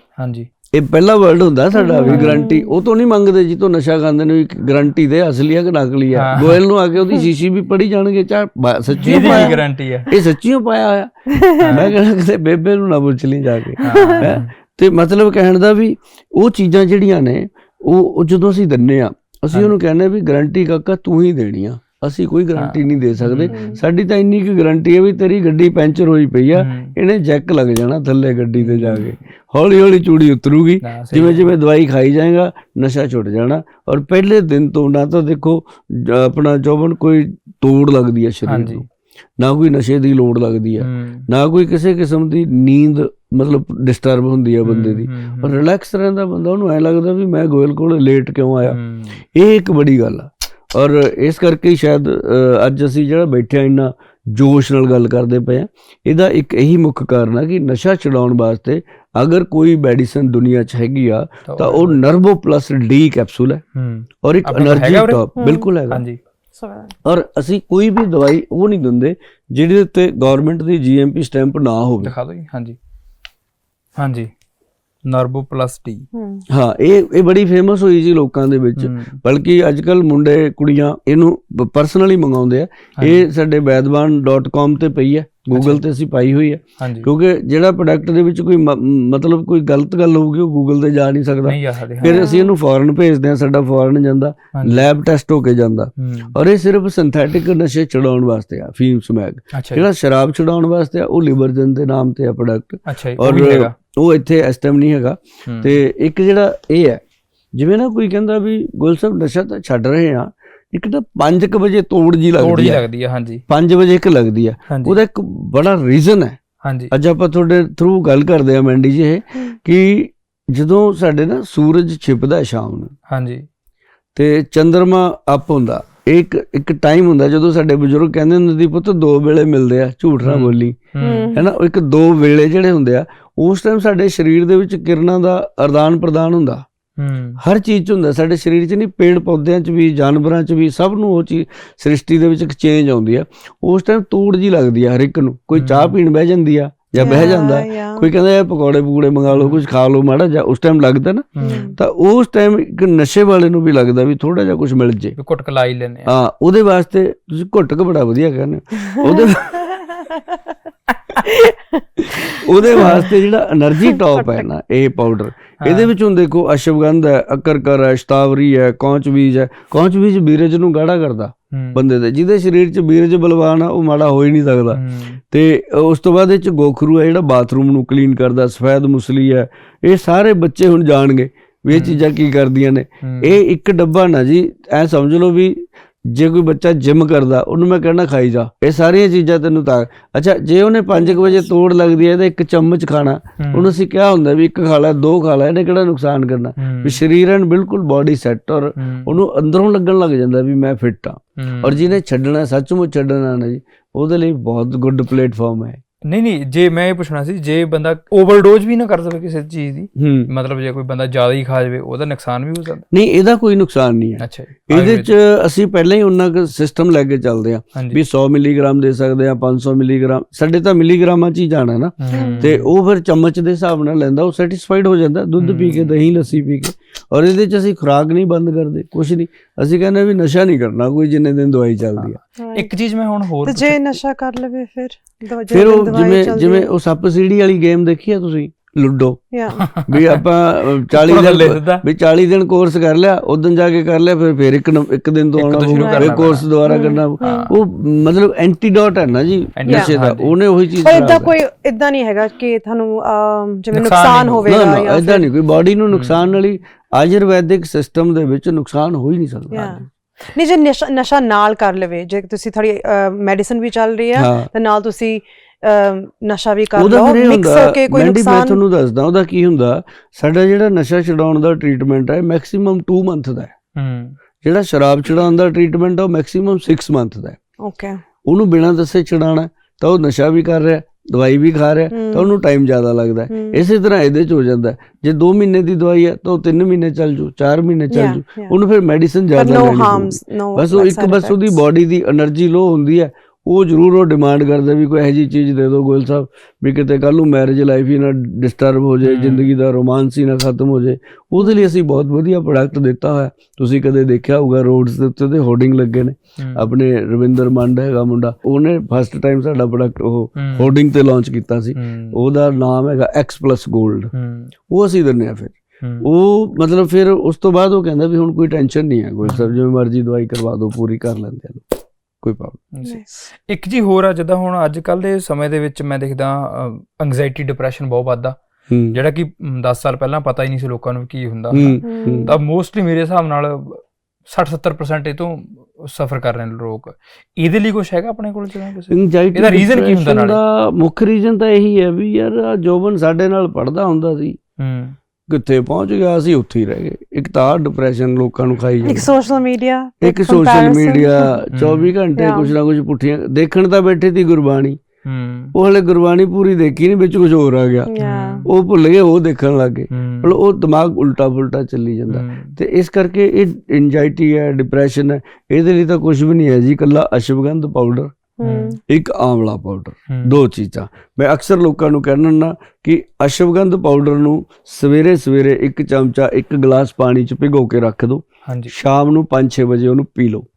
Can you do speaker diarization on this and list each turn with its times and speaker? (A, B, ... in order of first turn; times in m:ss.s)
0:00.2-0:00.5 A
0:00.7-0:38.9 B
0:01.7-0:02.7 C
0:02.0-0:02.5 A
0:06.1-0:06.6 A
0:09.0-0:10.1 A
0:09.0-0:09.6 C
0:11.3-0:11.7 C
0:11.6-0:12.0 A
0:13.8-0:14.3 C
0:13.8-0:14.5 A
0:22.6-0:23.6 A
0:23.5-0:23.8 C
0:26.5-0:26.9 A
0:28.6-0:29.2 A
0:30.8-0:31.5 A
0:38.5-0:38.8 A
0:39.4-0:48.8 B
0:40.8-0:41.3 A
0:44.6-0:45.6 A
0:48.7-0:49.2 A
0:49.3-1:03.6 B
1:01.5-1:02.0 A
1:03.8-1:05.2 A
1:04.2-1:06.0 B
1:05.4-1:05.7 C
1:05.9-1:06.2 A
1:06.6-1:07.0 C
1:07.0-1:12.1 B
1:12.0-1:12.8 A
1:14.0-1:14.3 A
1:15.1-1:16.1 A
1:16.1-1:16.5 C
1:16.5-1:47.0 B
1:18.8-1:19.2 A
1:23.0-1:23.3 A
1:25.5-1:25.8 A
1:26.8-1:27.1 A
1:31.5-1:32.2 A
1:32.0-1:32.5 C
1:34.6-1:34.8 A
1:36.0-1:36.4 A
1:39.5-1:39.8 A
1:42.9-1:43.7 A
1:45.5-1:45.8 A
1:47.6-1:52.8 B
1:52.4-1:53.4 A
1:53.5-1:56.4 B
1:54.7-1:55.0 A
1:56.6-1:56.9 A
1:56.9-2:02.9 B
2:03.1-2:03.4 A
2:04.2-2:10.8 B
2:10.2-2:11.3 A
2:11.0-2:11.5 C
2:11.3-2:16.6 B
2:17.0-2:17.4 A
2:17.4-2:35.2 B
2:25.5-2:26.0 A
2:27.0-2:28.1 C
2:29.3-2:29.6 A
2:31.4-2:31.7 A
2:31.4-2:31.8 C
2:35.2-2:36.1 A
2:36.1-2:39.8 B
2:38.8-2:40.4 C
2:41.2-2:43.0 C
2:42.0-3:25.8 B
2:42.8-2:43.1 A
2:43.9-2:44.5 C
2:45.6-2:45.9 A
2:51.5-2:51.9 A
2:54.7-2:55.2 A
3:01.7-3:02.0 A
3:03.0-3:03.4 A
3:10.9-3:11.5 C
3:13.4-3:13.7 A
3:16.6-3:17.0 A
3:18.8-3:19.2 A
3:21.4-3:21.8 A
3:26.0-3:32.9 A
3:30.0-3:30.3 B
3:32.9-3:52.2 B
3:34.2-3:35.1 A
3:37.8-3:38.0 A
3:42.0-3:42.7 A
3:42.1-3:42.5 C
3:45.4-3:46.0 A
3:52.0-3:54.0 A
3:52.4-3:52.7 C
3:53.4-3:56.7 C
3:55.5-3:59.2 B
3:59.3-3:59.7 C
3:59.6-4:01.8 A
3:59.8-4:11.3 B
4:05.4-4:06.5 A
4:05.7-4:07.5 C
4:07.2-4:07.5 A
4:09.6-4:10.4 A
4:09.7-4:09.9 C
4:10.8-4:15.3 C
4:13.7-4:14.5 A
4:14.5-4:19.8 B
4:15.9-4:16.2 A
4:19.5-4:28.6 C
4:24.2-4:24.5 B
4:26.8-4:33.5 B
4:33.8-4:34.2 A
4:34.4-4:37.4 B
4:37.6-4:38.0 C
4:38.3-5:14.1 B
4:41.9-4:42.3 C
4:43.3-4:43.6 C
4:47.9-4:48.5 C
4:49.4-4:51.6 C
4:59.0-4:59.5 A
5:06.4-5:06.7 A
5:10.4-5:10.7 A
5:11.8-5:12.2 A
5:14.1-5:14.5 A
5:14.7-5:22.6 B
5:15.8-5:16.1 A
5:19.2-5:19.5 A
5:22.7-5:28.4 A
5:28.7-5:29.0 B
5:28.9-5:40.4 A
5:31.5-5:32.3 B
5:31.8-5:32.4 C
5:38.9-5:44.4 B
5:44.6-5:45.0 A
5:45.3-5:49.1 B
5:48.8-5:51.4 C
5:50.0-5:54.8 B
5:51.5-5:51.9 A
5:52.2-5:52.5 C
5:55.0-5:55.5 A
5:55.5-5:57.9 B
5:57.9-5:58.4 C
5:58.0-5:58.5 A
5:58.5-6:08.1 B
5:59.9-6:00.4 A
6:02.1-6:02.5 A
6:08.4-6:08.8 C
6:08.4-6:08.8 A
6:08.8-6:20.5 B
6:10.1-6:10.4 A
6:18.5-6:18.7 A